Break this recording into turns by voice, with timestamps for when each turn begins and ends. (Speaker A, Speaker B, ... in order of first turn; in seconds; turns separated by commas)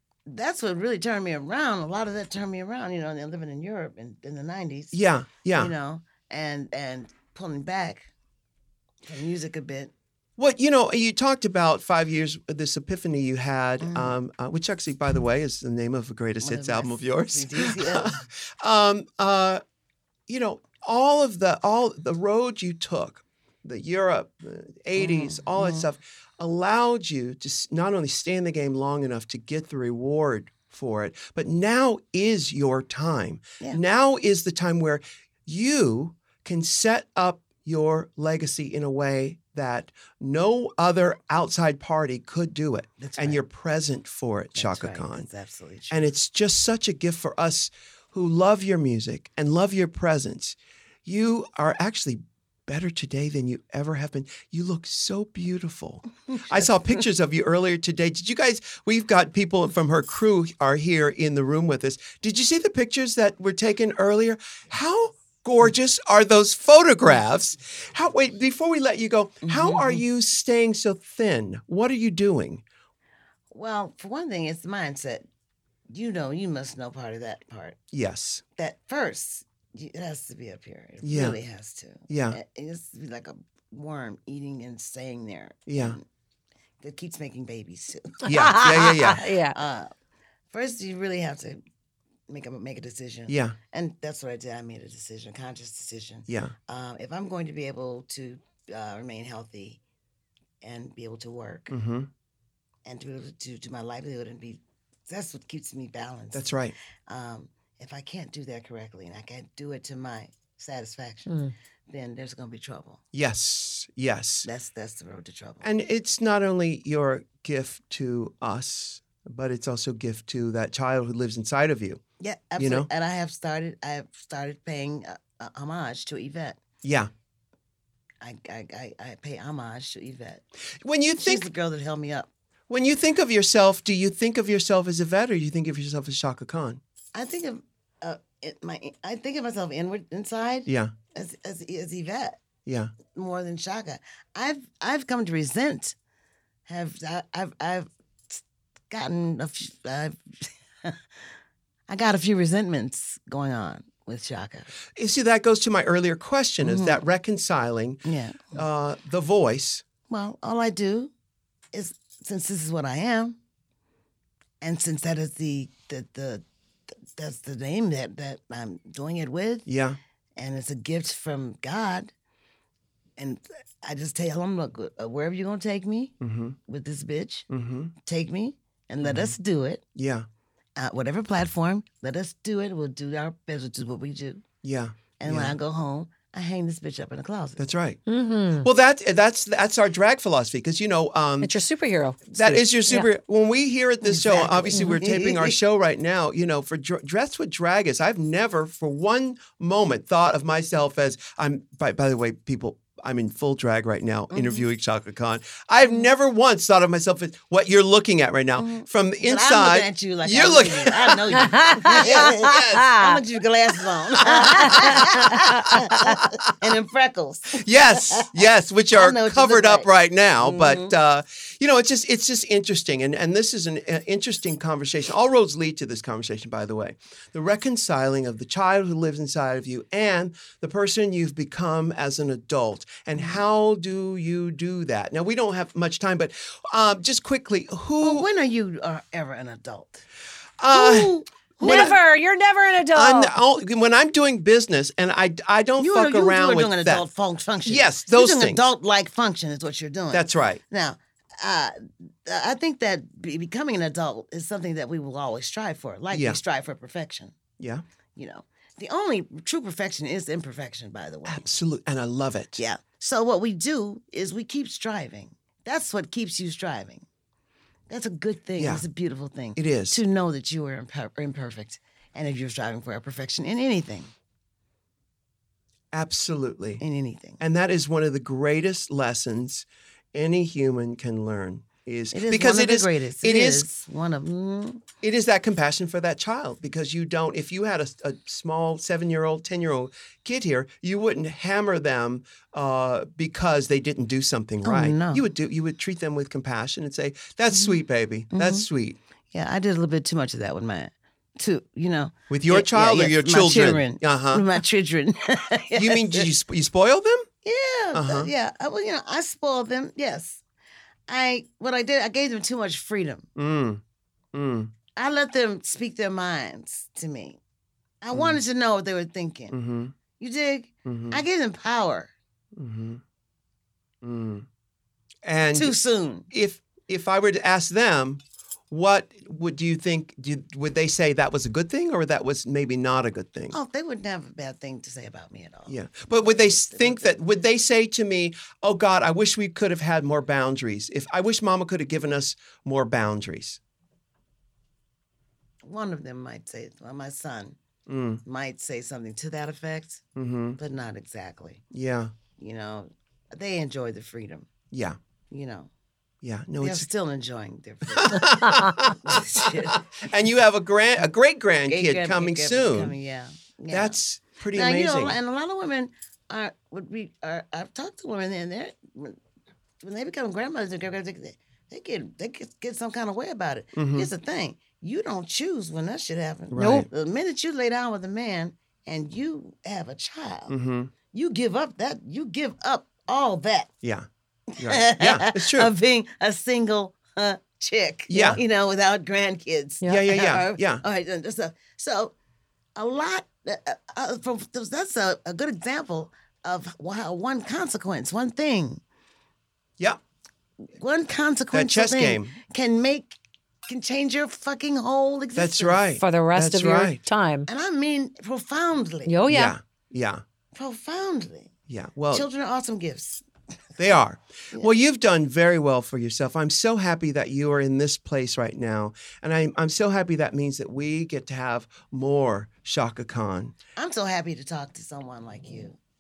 Speaker A: 0.2-5.0, Speaker B: 4.9-5.7, Speaker A: 5.5-8.1, Speaker A: 9.1-9.9, Speaker B: 10.4-19.6, Speaker A: 13.8-14.2, Speaker A: 16.4-18.2, Speaker B: 20.3-45.3, Speaker A: 24.9-25.9, Speaker A: 43.0-43.4, Speaker A: 44.5-46.0, Speaker B: 45.9-72.6, Speaker A: 69.4-70.0, Speaker A: 73.5-75.2, Speaker A: 75.9-77.8, Speaker B: 77.9-78.4, Speaker A: 78.6-86.0, Speaker B: 81.0-81.3, Speaker B: 82.1-82.4, Speaker B: 85.7-86.0, Speaker A: 86.8-89.9, Speaker C: 88.2-89.5, Speaker B: 88.2-89.2, Speaker A: 90.5-91.6, Speaker A: 92.3-99.8, Speaker B: 93.3-93.5, Speaker B: 96.3-96.5, Speaker A: 100.6-101.7, Speaker B: 101.7-102.1, Speaker A: 102.8-106.5, Speaker B: 106.3-106.7, Speaker A: 107.1-111.3, Speaker A: 111.9-113.0, Speaker B: 113.1-114.5, Speaker A: 114.4-115.7, Speaker B: 115.6-122.0, Speaker A: 122.2-126.6, Speaker B: 122.6-122.9, Speaker B: 126.8-127.1, Speaker A: 128.2-130.4, Speaker B: 130.8-131.5, Speaker A: 131.2-132.3, Speaker B: 132.7-136.8, Speaker A: 137.1-142.4, Speaker B: 140.7-140.9, Speaker B: 142.7-142.9, Speaker A: 143.1-145.9, Speaker A: 146.7-151.0, Speaker A: 151.9-154.7, Speaker B: 154.9-158.0, Speaker A: 156.6-157.0, Speaker A: 158.0-158.6, Speaker B: 158.5-159.8, Speaker A: 160.1-161.1, Speaker A: 161.7-163.4, Speaker A: 164.6-166.4, Speaker A: 167.1-169.7, Speaker B: 169.7-170.0, Speaker A: 170.3-172.1, Speaker A: 173.2-176.1, Speaker B: 176.2-176.6, Speaker A: 176.7-177.5, Speaker B: 177.5-177.9, Speaker A: 178.0-179.8, Speaker B: 179.0-179.3, Speaker B: 179.9-180.2, Speaker A: 180.8-184.4, Speaker B: 184.6-185.5, Speaker A: 185.2-187.6, Speaker B: 187.6-188.0, Speaker C: 188.1-188.7, Speaker B: 188.6-191.5, Speaker C: 191.4-193.1, Speaker B: 192.3-212.9, Speaker A: 194.0-195.6, Speaker A: 204.3-204.6, Speaker A: 205.8-206.1, Speaker A: 208.6-218.4, Speaker C: 211.4-213.2, Speaker B: 214.2-216.7, Speaker C: 214.7-215.4, Speaker B: 217.5-238.3, Speaker A: 218.9-219.9, Speaker A: 220.4-220.9, Speaker A: 238.0-240.0, Speaker B: 240.6-242.0, Speaker A: 240.7-242.0, Speaker C: 241.6-243.3, Speaker B: 242.9-247.0, Speaker A: 245.8-257.4, Speaker B: 247.6-248.6, Speaker B: 250.1-250.6, Speaker B: 256.1-256.4, Speaker A: 258.1-261.4, Speaker B: 261.2-262.6, Speaker A: 262.6-267.0, Speaker A: 267.9-274.1, Speaker B: 268.6-268.8, Speaker B: 269.6-270.0, Speaker B: 275.9-276.8, Speaker A: 276.8-277.4, Speaker B: 277.4-283.7, Speaker A: 282.1-284.8, Speaker B: 285.0-299.0, Speaker A: 294.6-295.3, Speaker A: 297.5-298.7, Speaker A: 299.3-306.3, Speaker B: 302.3-304.6, Speaker B: 305.7-307.3, Speaker A: 307.4-310.4, Speaker B: 307.9-308.3, Speaker A: 311.1-313.3, Speaker B: 313.4-313.8, Speaker B: 314.3-314.7, Speaker A: 314.9-317.4, Speaker A: 318.0-319.5, Speaker B: 318.1-318.4, Speaker B: 319.5-319.9, Speaker A: 320.2-322.1, Speaker B: 320.9-321.2, Speaker B: 322.6-323.0, Speaker B: 324.0-324.4, Speaker B: 325.2-325.8, Speaker A: 325.5-326.3, Speaker B: 326.3-333.6, Speaker A: 333.5-337.1, Speaker B: 335.7-343.6, Speaker A: 345.6-347.6, Speaker B: 347.9-348.2, Speaker A: 348.2-350.0, Speaker B: 350.1-350.6, Speaker A: 350.6-351.6, Speaker B: 351.7-352.1, Speaker A: 352.4-354.5, Speaker A: 355.3-355.7, Speaker B: 356.2-356.9, Speaker A: 356.6-359.8, Speaker B: 357.9-362.9, Speaker A: 361.7-364.0, Speaker B: 363.7-365.2, Speaker A: 364.5-369.2, Speaker A: 369.8-380.5, Speaker B: 373.8-374.1, Speaker B: 376.5-376.9, Speaker C: 376.5-376.9, Speaker B: 380.5-380.9, Speaker A: 381.1-383.7, Speaker A: 384.6-392.1, Speaker B: 384.6-385.7, Speaker B: 388.1-388.4, Speaker B: 389.9-390.8, Speaker A: 392.7-398.8, Speaker A: 400.8-405.8, Speaker B: 401.5-402.3, Speaker B: 405.3-407.0, Speaker C: 406.0-407.5, Speaker A: 407.5-409.2, Speaker C: 409.1-409.5, Speaker B: 409.3-410.2, Speaker A: 410.5-411.5, Speaker B: 411.7-412.2, Speaker A: 412.1-413.2, Speaker B: 413.8-423.5, Speaker A: 423.8-425.8